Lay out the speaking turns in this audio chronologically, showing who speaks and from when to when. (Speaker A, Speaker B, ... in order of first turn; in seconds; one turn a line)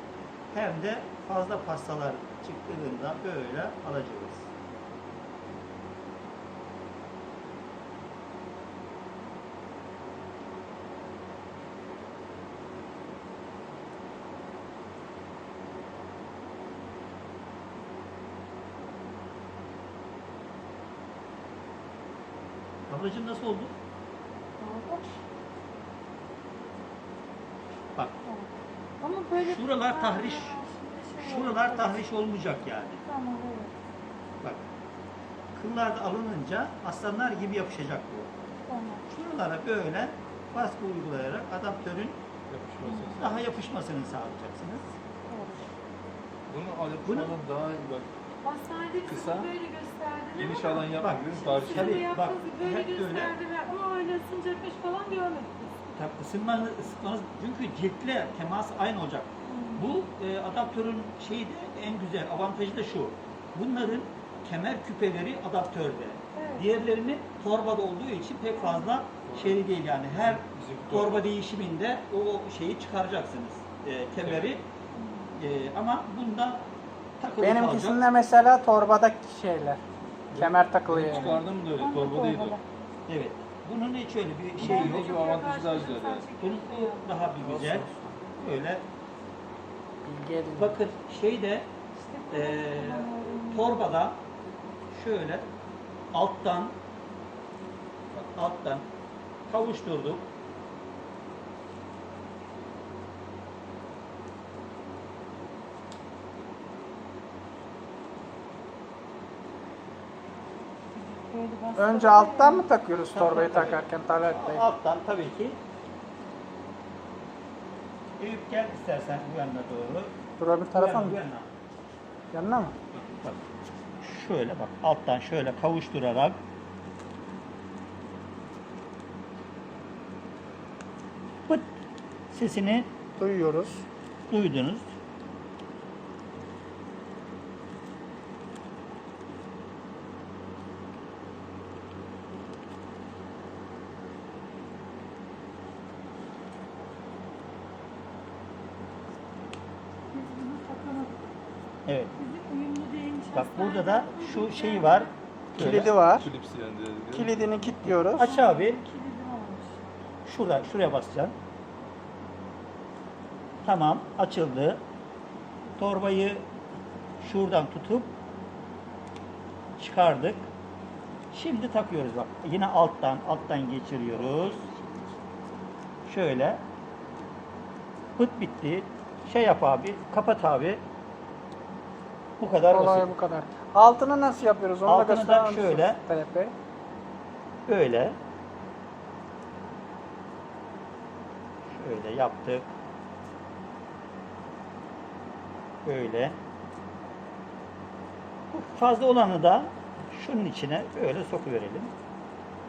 Speaker A: 0.5-4.5
Speaker A: 22.9-23.7
Speaker B: 24.6-25.0
Speaker B: 29.0-32.0
Speaker A: 29.4-30.6
Speaker A: 31.2-33.0
Speaker B: 33.0-33.7
Speaker A: 35.5-38.3
Speaker B: 38.7-39.0
Speaker A: 39.1-42.2
Speaker C: 42.5-43.5
Speaker B: 42.8-43.2
Speaker A: 43.2-44.8
Speaker B: 45.3-45.6
Speaker C: 46.5-48.1
Speaker A: 47.0-47.4
Speaker B: 48.4-55.8
Speaker C: 49.1-49.5
Speaker C: 50.4-52.1
Speaker A: 51.0-53.3
Speaker A: 55.9-74.7
Speaker B: 59.5-59.9
Speaker B: 66.3-66.7
Speaker B: 68.6-68.9
Speaker C: 69.3-71.3
Speaker C: 74.2-74.5
Speaker B: 75.0-75.3
Speaker A: 75.4-76.6
Speaker A: 77.2-78.0
Speaker D: 77.4-79.8
Speaker C: 80.3-82.6
Speaker D: 80.3-81.3
Speaker B: 81.0-82.6
Speaker A: 83.1-85.1
Speaker C: 84.6-86.3
Speaker B: 84.6-87.2
Speaker A: 86.4-88.8
Speaker D: 87.4-88.1
Speaker D: 90.0-90.8
Speaker A: 90.6-91.7
Speaker B: 92.0-93.8
Speaker A: 92.3-94.2
Speaker A: 94.9-95.5
Speaker A: 96.1-96.8
Speaker A: 98.1-98.9
Speaker A: 99.5-100.3
Speaker B: 110.9-112.7
Speaker D: 111.8-114.7
Speaker A: 113.1-115.6
Speaker A: 118.2-120.1
Speaker D: 120.4-121.2
Speaker A: 120.7-121.5
Speaker D: 122.3-122.8
Speaker A: 122.9-123.4
Speaker A: 124.0-126.4
Speaker A: 132.3-132.9
Speaker D: 133.2-133.8
Speaker A: 134.3-134.9
Speaker B: 150.1-151.2
Speaker A: 151.9-152.1
Speaker B: 152.2-155.1
Speaker A: 153.3-155.1
Speaker C: 155.6-158.0
Speaker D: 155.6-156.3
Speaker D: 157.1-158.3
Speaker A: 158.2-158.8
Speaker B: 158.2-159.8
Speaker A: 160.2-161.3
Speaker A: 163.6-164.8
Speaker A: 165.8-166.4
Speaker A: 167.2-168.1
Speaker A: 169.8-170.5
Speaker A: 171.3-174.7
Speaker C: 174.3-175.0
Speaker A: 176.1-176.6
Speaker A: 178.2-180.8
Speaker A: 182.4-183.1
Speaker D: 182.7-186.5
Speaker A: 184.8-186.0
Speaker A: 187.7-188.2
Speaker A: 191.7-192.6
Speaker A: 195.8-196.4
Speaker A: 198.5-201.9